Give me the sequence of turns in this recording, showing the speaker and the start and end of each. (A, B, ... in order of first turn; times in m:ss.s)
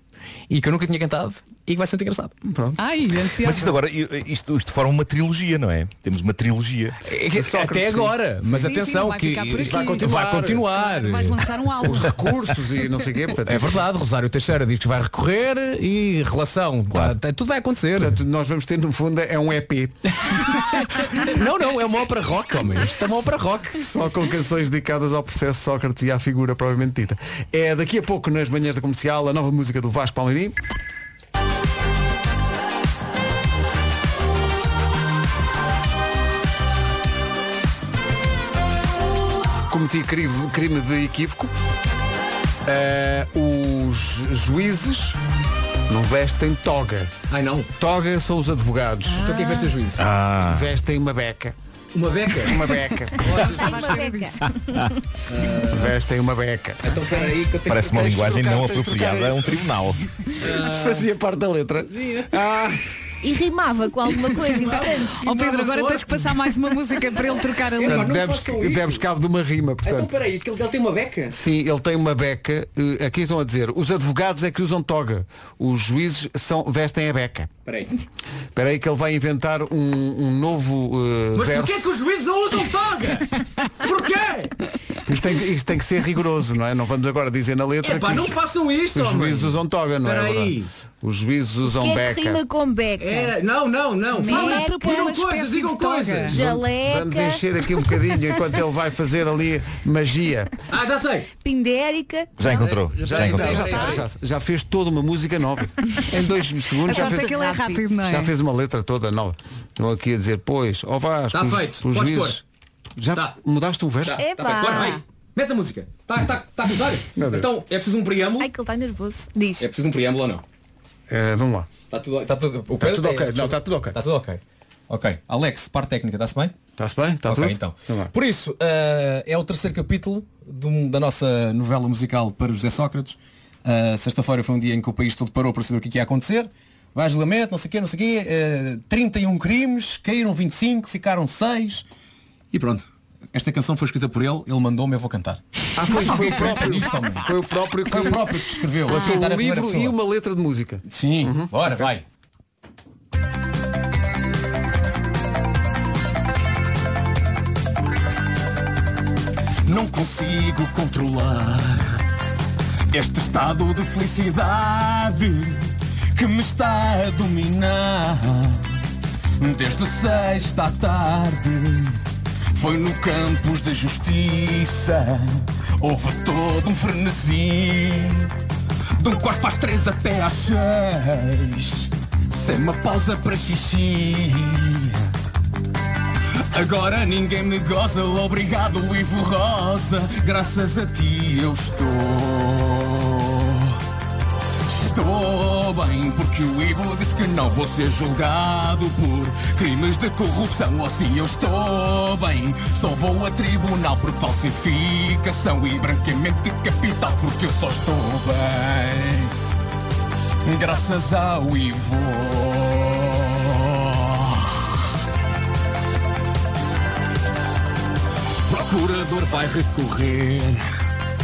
0:00.5-0:02.3 A
0:02.4-0:02.8 B
0:02.8-0:03.7 C
0:03.4-0:07.0 D
0:07.0-0:11.5 A
0:07.2-0:08.8 B
0:08.5-0:10.1 C
0:09.5-0:10.7 B
0:10.6-0:12.1 C
0:11.8-0:13.8 B
0:13.4-0:18.2 A
0:16.9-0:17.2 D
0:18.0-0:19.9 B
0:20.3-0:23.8 A
0:23.7-0:30.5 B
0:39.7-0:41.5 B
0:42.6-0:45.2 B
0:45.9-0:47.1 B
0:47.3-0:47.7 A
0:47.8-0:49.3 B
0:49.1-0:49.8 E
0:49.2-0:50.0 A
0:50.0-0:50.7 D
0:50.4-0:51.5 B
0:51.9-0:52.6 A
0:52.4-0:53.3 B
0:53.2-0:54.0 A
0:53.2-0:54.4 C
0:53.2-0:54.9 E
0:55.3-0:56.0 A
0:55.6-0:59.6 B
0:56.8-0:58.4 A
0:57.6-1:00.0 D
1:00.4-1:01.1 A
1:00.4-1:02.8 B
1:01.9-1:02.4 A
1:03.2-1:05.6 E
1:05.2-1:08.1 C
1:05.3-1:06.2 A
1:07.8-1:09.1 A
1:07.8-1:10.1 B
1:09.8-1:11.3 A
1:11.3-1:17.5 B
1:17.6-1:17.9 A
1:18.5-1:21.8 B
1:21.3-1:24.5 A
1:25.0-1:28.4 B
1:27.8-1:30.7 A
1:28.9-1:32.4 B
1:31.6-1:33.3 E
1:33.0-1:36.4 A
1:34.1-1:35.1 E
1:34.2-1:36.4 C
1:36.3-1:37.9 E
1:36.3-1:40.5 B
1:40.7-1:41.3 A
1:41.4-1:42.7 E
1:42.4-1:43.8 D
1:42.5-1:44.1 A
1:43.0-1:47.4 B
1:43.5-1:44.0 C
1:46.8-1:48.3 C
1:46.8-1:47.9 E
1:48.0-1:52.4 B
1:51.3-1:52.4 A
1:53.0-1:54.2 B
1:54.0-1:58.5 A
1:54.2-1:55.0 E
1:57.2-1:57.5 B
1:58.4-1:59.7 E
1:59.6-2:00.4 A
2:01.1-2:01.7 B
2:01.9-2:06.6 A
2:02.7-2:04.0 B
2:06.8-2:08.1 B
2:07.2-2:21.8 A
2:22.5-2:27.3 A
2:25.8-2:31.9 B
2:27.8-2:30.0 A
2:30.9-2:32.0 A
2:39.6-2:42.0 A
2:42.9-2:48.8 A
2:49.4-2:52.0 A
2:52.5-2:58.3 A
2:59.0-3:05.1 A
3:06.5-3:13.8 A
3:14.7-3:29.3 A
3:30.4-3:34.7 A
3:38.5-3:40.6 A